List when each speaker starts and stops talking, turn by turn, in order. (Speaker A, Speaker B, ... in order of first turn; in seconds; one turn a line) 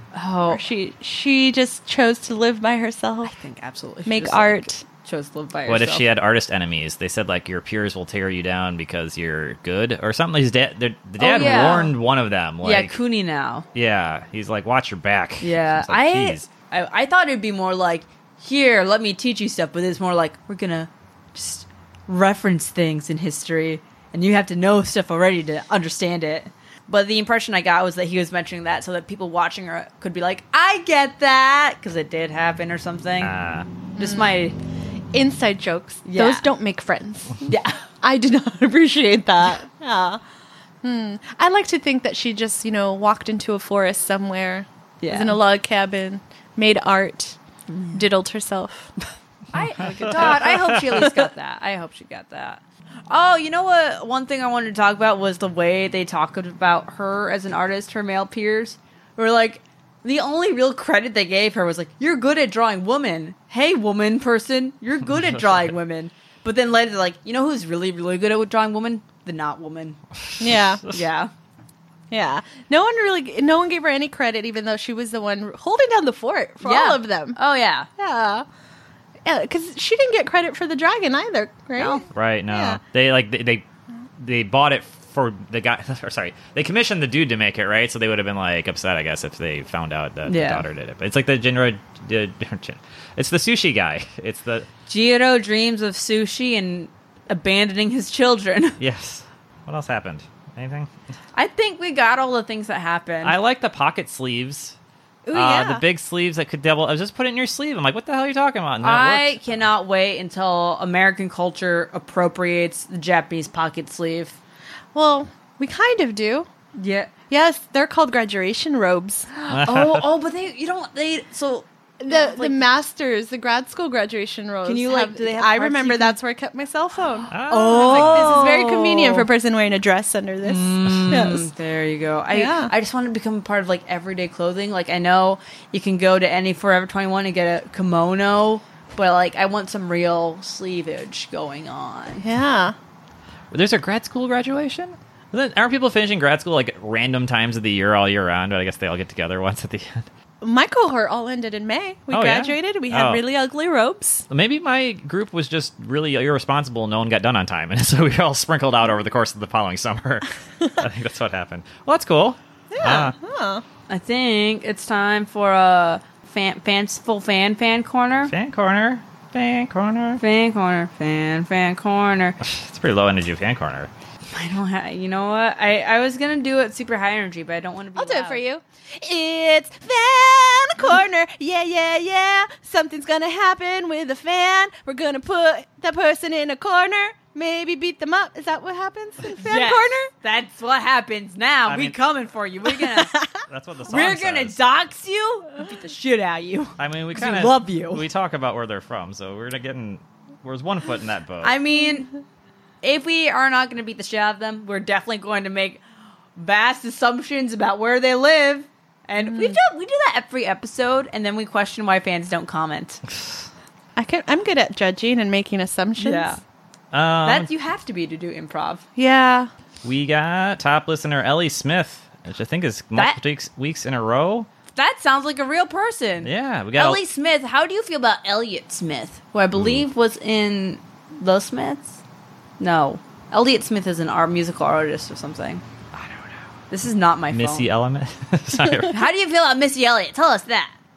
Speaker A: 0.1-0.6
Speaker B: 0.5-3.3
Speaker A: 3.2-6.1
Speaker B: 4.1-4.8
Speaker C: 5.7-13.0
Speaker A: 11.2-11.9
Speaker A: 12.6-13.7
Speaker C: 13.7-16.5
Speaker A: 15.4-33.4
Speaker C: 33.2-33.7
Speaker B: 34.0-34.4
Speaker A: 34.0-34.6
Speaker B: 35.1-40.2
Speaker A: 36.0-36.5
Speaker A: 37.5-37.8
Speaker B: 40.8-47.4
Speaker A: 45.0-45.4
Speaker A: 47.7-48.0
Speaker B: 47.9-48.9
Speaker A: 49.5-70.0
Speaker C: 49.6-51.2
Speaker B: 70.4-70.8
Speaker C: 70.5-71.0
Speaker A: 70.9-71.3
Speaker B: 72.1-77.4
Speaker A: 76.6-77.9
Speaker B: 78.0-78.5
Speaker B: 79.2-82.8
Speaker A: 81.8-82.0
Speaker C: 82.1-83.6
Speaker C: 84.2-94.7
Speaker A: 90.2-90.7
Speaker A: 94.9-98.8
Speaker C: 98.8-100.9
Speaker A: 101.3-103.4
Speaker C: 103.2-104.8
Speaker B: 105.2-105.8
Speaker C: 105.3-109.6
Speaker A: 108.8-114.4
Speaker B: 114.9-116.5
Speaker A: 116.8-117.1
Speaker B: 117.3-119.3
Speaker A: 119.3-122.6
Speaker C: 119.5-120.1
Speaker B: 122.0-131.5
Speaker A: 124.7-126.2
Speaker C: 127.3-128.5
Speaker A: 127.5-129.3
Speaker A: 130.4-142.2
Speaker B: 132.3-132.7
Speaker B: 142.2-142.8
Speaker C: 143.5-150.1
Speaker B: 150.4-154.3
Speaker C: 152.1-153.2
Speaker C: 154.3-163.2
Speaker B: 162.7-163.6
Speaker A: 163.9-168.3
Speaker C: 168.3-170.2
Speaker A: 170.2-172.4
Speaker C: 172.4-173.9
Speaker A: 174.3-178.4
Speaker B: 178.0-190.1
Speaker A: 189.4-193.2
Speaker C: 191.7-192.0
Speaker B: 192.8-193.3
Speaker C: 193.5-194.6
Speaker A: 193.9-198.1
Speaker C: 196.8-201.5
Speaker A: 201.4-202.1
Speaker A: 202.8-205.8
Speaker A: 206.4-213.0
Speaker B: 209.2-209.6
Speaker B: 214.0-216.4
Speaker A: 216.0-216.4
Speaker C: 216.9-217.5
Speaker A: 217.2-218.8
Speaker B: 219.0-219.5
Speaker C: 219.8-224.5
Speaker A: 224.8-232.0
Speaker C: 226.2-227.0
Speaker C: 229.6-229.8
Speaker A: 232.6-235.6
Speaker C: 235.9-236.3
Speaker A: 236.7-237.7
Speaker C: 237.3-239.0
Speaker A: 238.9-240.7